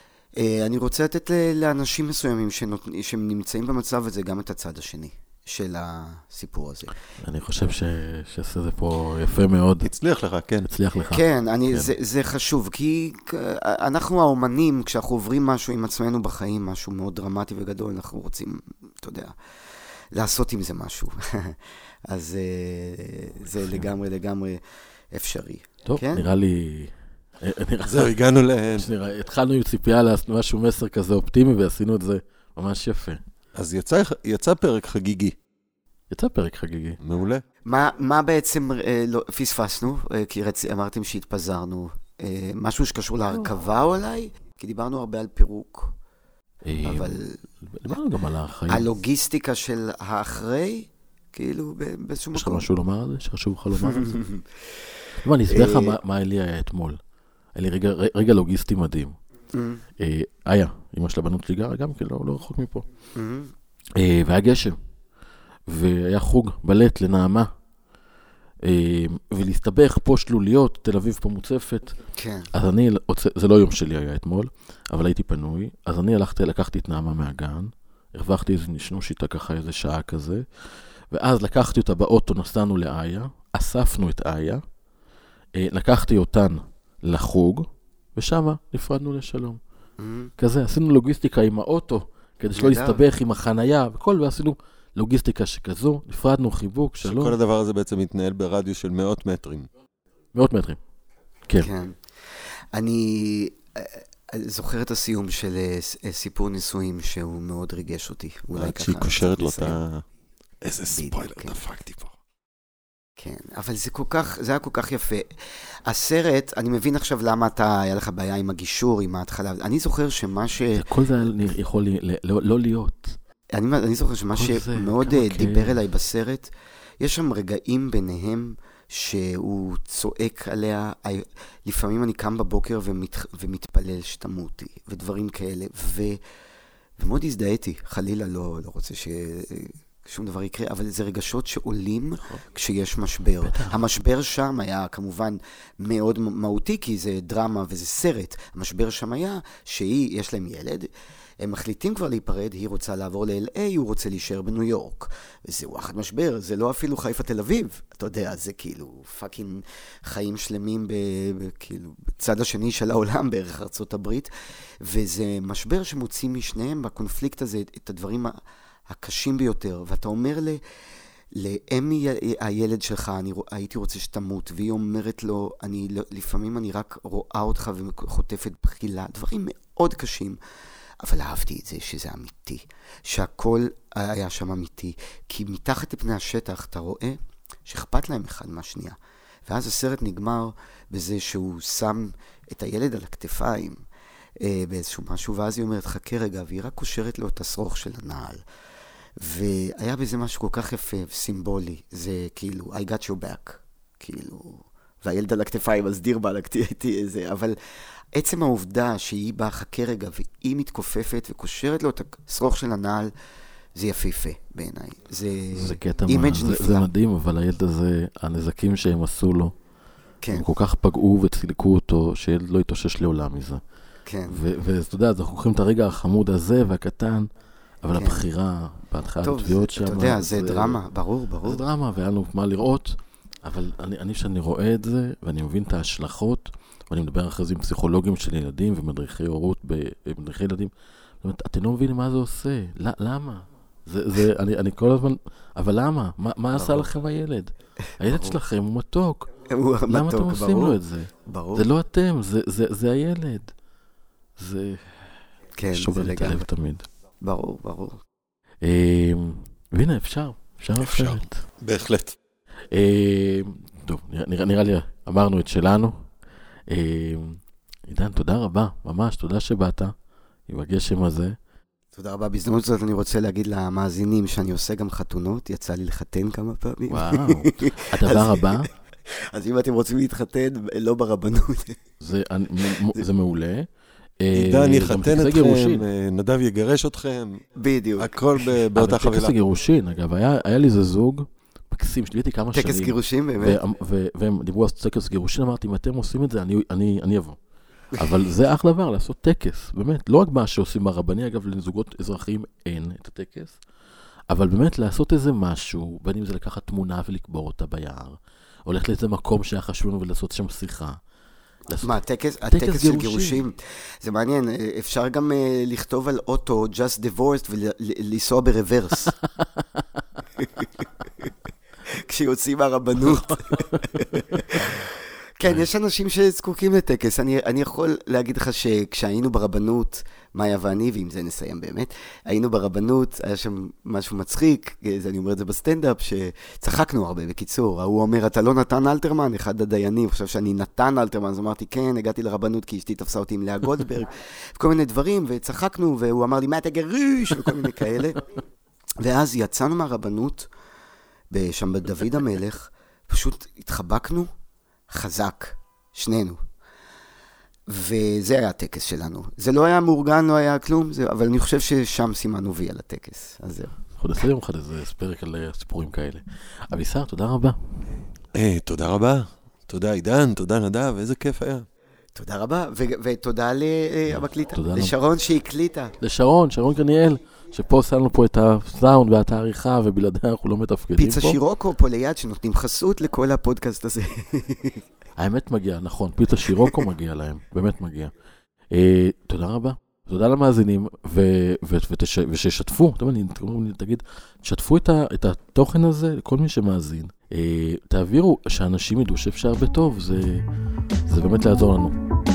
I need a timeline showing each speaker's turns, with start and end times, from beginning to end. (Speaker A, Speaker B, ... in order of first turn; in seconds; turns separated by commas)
Speaker A: 0.3-6.9, Speaker B: 7.2-9.9, Speaker C: 9.8-10.7, Speaker B: 10.7-11.9, Speaker A: 11.1-19.3, Speaker A: 20.1-26.3, Speaker B: 23.6-23.9, Speaker B: 25.9-28.1, Speaker C: 27.8-28.9, Speaker B: 28.7-33.2, Speaker C: 33.5-35.4, Speaker B: 36.1-37.0, Speaker C: 37.0-37.4, Speaker A: 37.6-45.9, Speaker B: 46.6-48.9, Speaker A: 46.8-48.0, Speaker A: 48.7-52.6, Speaker B: 52.3-54.2, Speaker A: 53.8-54.8, Speaker B: 55.2-57.0, Speaker A: 55.5-56.0, Speaker B: 57.5-59.1, Speaker A: 59.5-59.8, Speaker B: 60.0-62.9, Speaker A: 63.1-63.5, Speaker B: 64.0-64.8, Speaker B: 65.7-67.5, Speaker B: 68.6-72.0, Speaker A: 72.1-72.5, Speaker B: 72.5-84.6, Speaker B: 85.5-89.6, Speaker A: 90.0-90.3, Speaker B: 90.4-97.3, Speaker A: 92.5-93.0, Speaker C: 97.0-99.7, Speaker B: 100.3-100.8, Speaker A: 101.5-102.0, Speaker A: 102.7-109.8, Speaker C: 108.5-110.0, Speaker C: 110.6-112.1, Speaker A: 110.9-111.5, Speaker A: 113.2-120.8, Speaker B: 120.8-123.2, Speaker A: 123.5-136.2, Speaker B: 124.3-125.8, Speaker A: 137.0-170.6, Speaker B: 142.2-142.4, Speaker B: 143.4-143.8, Speaker A: 171.3-180.4, Speaker A: 181.0-193.8, Speaker A: 194.4-198.4, Speaker A: 199.2-207.6, Speaker A: 208.1-213.1, Speaker A: 213.7-216.9, Speaker B: 215.5-219.5, Speaker A: 220.2-220.4, Speaker B: 220.3-223.6, Speaker A: 224.1-224.4, Speaker B: 224.3-227.3, Speaker B: 227.8-230.8, Speaker A: 227.9-228.2, Speaker A: 229.2-231.7, Speaker B: 231.4-249.3, Speaker A: 246.5-246.9, Speaker A: 248.0-248.4, Speaker A: 249.5-251.7, Speaker B: 249.9-253.5, Speaker B: 254.4-255.0, Speaker A: 255.6-256.5, Speaker B: 255.7-256.9, Speaker A: 257.2-258.0, Speaker B: 258.6-261.4, Speaker C: 260.8-262.2, Speaker B: 262.7-266.1, Speaker B: 266.7-269.9, Speaker B: 270.5-271.3, Speaker A: 271.9-281.8, Speaker B: 276.9-278.7, Speaker B: 282.0-283.7, Speaker A: 282.7-283.0, Speaker B: 284.2-285.8, Speaker C: 284.3-287.4, Speaker A: 287.5-288.2, Speaker C: 288.0-289.3, Speaker B: 288.8-297.4, Speaker A: 292.5-293.6, Speaker B: 297.9-303.6, Speaker B: 304.3-311.0, Speaker B: 311.7-311.9, Speaker A: 311.8-319.1, Speaker B: 312.5-313.4, Speaker B: 319.4-319.8, Speaker A: 320.4-321.3, Speaker A: 321.8-348.2, Speaker B: 323.1-324.7, Speaker A: 349.0-350.5, Speaker A: 351.3-354.3, Speaker A: 354.9-356.4, Speaker A: 357.7-363.8, Speaker B: 364.0-368.0, Speaker C: 368.3-371.6, Speaker A: 372.1-375.9, Speaker B: 374.1-374.9, Speaker B: 376.0-381.4, Speaker A: 381.0-384.8, Speaker B: 385.2-388.1, Speaker A: 386.5-386.8, Speaker B: 388.7-400.4, Speaker B: 401.1-402.0